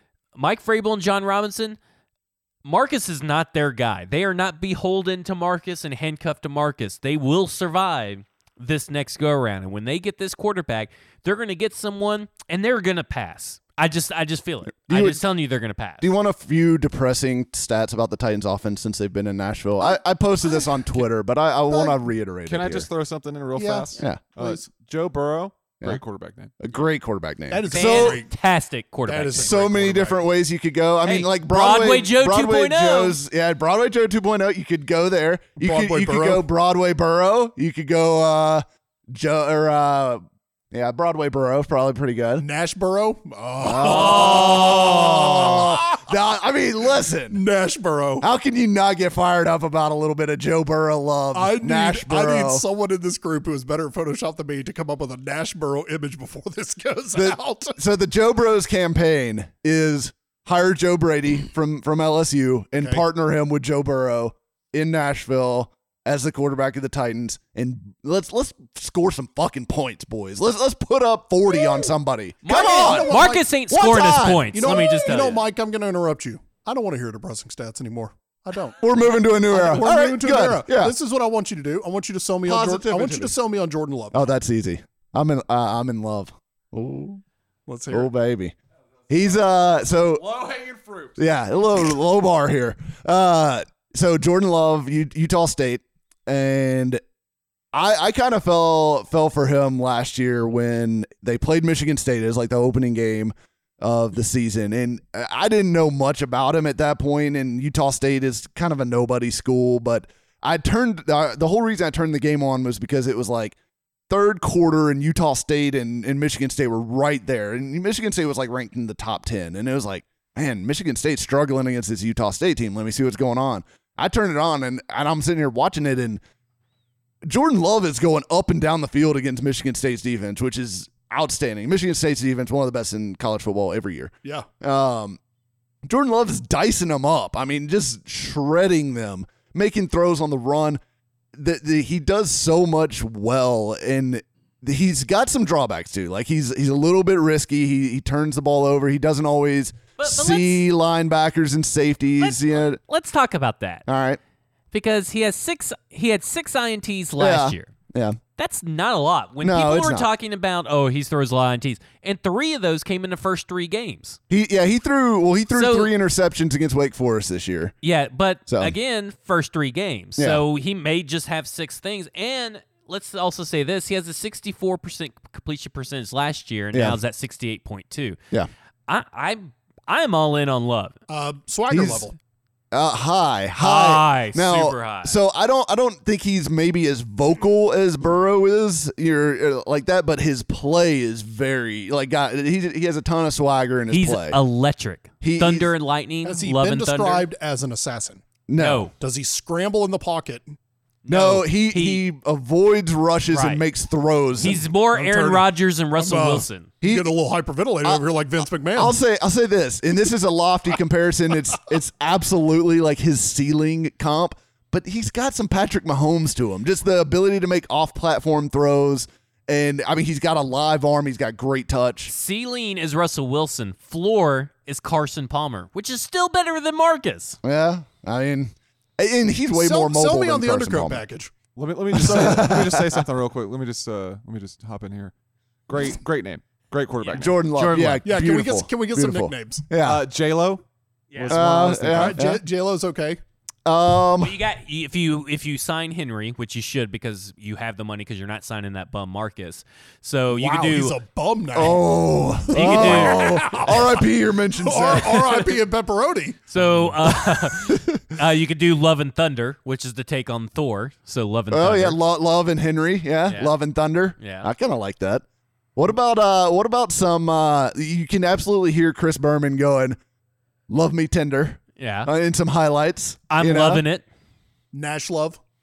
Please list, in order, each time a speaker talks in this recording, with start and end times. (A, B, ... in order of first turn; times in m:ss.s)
0:00.4-0:01.8 A
0:02.6-0:16.1 A
0:14.9-0:15.2 B
0:16.0-0:22.9 B
0:21.7-0:22.0 C
0:22.5-0:26.5 D
0:23.6-0:24.6 C
0:24.0-0:24.2 B
0:26.6-0:28.2 B
0:27.5-0:28.3 C
0:27.7-0:29.6 A
0:29.1-0:30.2 C
0:29.4-0:42.5 B
0:31.0-0:33.2 A
0:35.6-0:36.4 C
0:42.4-0:45.9 C
0:43.6-0:47.4 B
0:47.3-0:48.3 C
0:48.2-0:52.6 B
0:51.3-0:57.8 C
0:57.1-1:15.3 B
1:12.4-1:13.4 C
1:12.5-1:15.4 A
1:14.5-1:18.8 C
1:18.8-1:21.0 B
1:19.5-1:24.3 C
1:22.4-1:23.4 B
1:24.1-1:27.2 B
1:27.7-1:28.1 C
1:27.9-1:28.6 B
1:29.1-1:30.2 B
1:30.2-1:31.2 D
1:31.2-1:37.0 B
1:37.7-1:53.6 B
1:54.1-2:06.2 B
2:07.2-2:15.2 B
2:15.8-2:20.8 B
2:21.4-2:32.8 B
2:30.0-2:30.6 A
2:32.2-2:33.8 A
2:33.9-2:34.2 B
2:34.7-2:37.7 A
2:37.2-2:38.2 B
2:38.4-2:44.2 A
2:39.4-2:40.1 B
2:44.3-2:47.7 B
2:45.5-2:45.9 A
2:47.8-2:58.2 A
2:48.5-2:48.7 B
2:50.2-2:50.4 B
2:56.7-2:57.0 B
2:58.9-3:01.0 A
3:01.1-3:02.2 C
3:01.7-3:02.0 B
3:02.7-3:14.4 B
3:03.6-3:05.2 A
3:13.9-3:17.3 A
3:15.2-3:15.7 B
3:16.2-3:18.2 C
3:18.5-3:18.9 B
3:18.6-3:18.9 A
3:19.0-3:20.5 C
3:21.0-3:22.0 A
3:21.1-3:24.6 B
3:23.3-3:23.6 A
3:24.4-3:26.7 A
3:24.9-3:29.0 C
3:26.8-3:27.1 B
3:28.7-3:42.1 B
3:42.1-3:47.4 A
3:47.4-3:51.0 B
3:49.5-3:51.3 C
3:51.6-3:55.1 D
3:51.9-3:53.0 B
3:55.7-3:57.4 D
3:57.0-3:58.0 A
3:57.2-4:00.0 B
3:58.0-3:59.7 C
3:59.8-4:00.6 D
4:01.1-4:01.4 A
4:01.2-4:02.2 D
4:01.3-4:02.4 B
4:01.8-4:03.2 C
4:03.6-4:04.4 B
4:04.2-4:11.0 A
4:10.3-4:11.9 C
4:11.5-4:15.6 B
4:12.5-4:16.4 C
4:12.5-4:13.6 A
4:16.5-4:22.0 A
4:16.6-4:17.0 D
4:17.3-4:18.0 B
4:21.5-4:25.2 B
4:24.2-4:24.5 A
4:25.8-4:30.0 B
4:30.7-4:33.8 B
4:31.8-4:32.1 A
4:33.3-4:34.0 A
4:34.7-4:35.4 C